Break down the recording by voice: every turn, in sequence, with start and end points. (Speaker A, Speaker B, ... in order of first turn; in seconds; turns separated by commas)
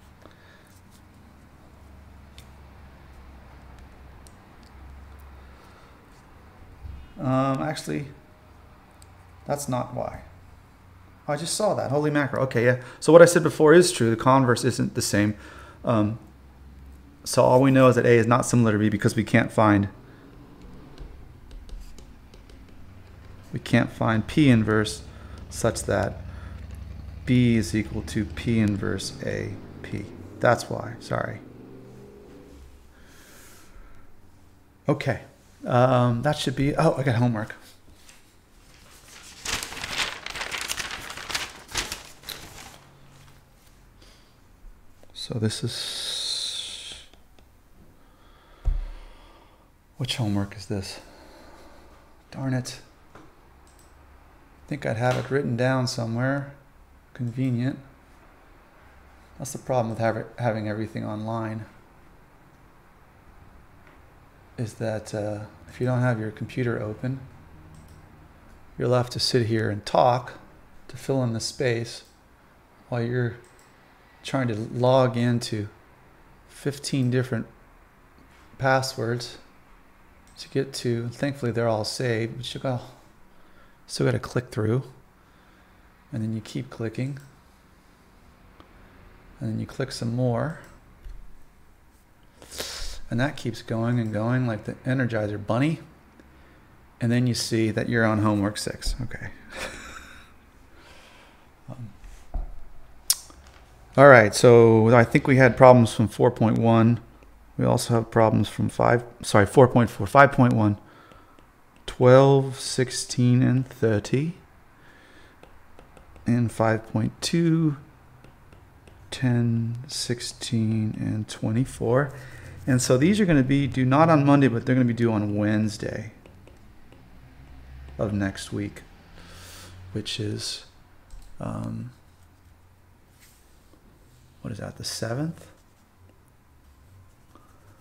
Speaker A: 7.2-8.1, Speaker A: 9.5-10.3, Speaker A: 11.3-16.2, Speaker A: 17.2-19.9, Speaker A: 23.5-26.2, Speaker A: 27.2-31.4, Speaker A: 34.9-37.6, Speaker A: 45.1-46.9, Speaker A: 50.0-51.0, Speaker A: 52.3-52.8, Speaker A: 54.7-56.6, Speaker A: 57.1-57.8, Speaker A: 59.4-61.7, Speaker A: 64.6-67.2, Speaker A: 68.8-72.1, Speaker A: 72.9-73.4, Speaker A: 74.2-75.7, Speaker A: 76.5-77.5, Speaker A: 78.6-79.4, Speaker A: 80.4-83.0, Speaker A: 83.9-84.9, Speaker A: 86.1-87.2, Speaker A: 89.4-90.6, Speaker A: 92.6-95.8, Speaker A: 97.0-99.8, Speaker A: 104.0-107.0, Speaker A: 107.6-110.8, Speaker A: 111.9-114.4, Speaker A: 116.3-117.8, Speaker A: 119.1-122.1, Speaker A: 122.7-126.2, Speaker A: 128.0-128.9, Speaker A: 129.9-130.7, Speaker A: 131.4-131.9, Speaker A: 134.4-135.5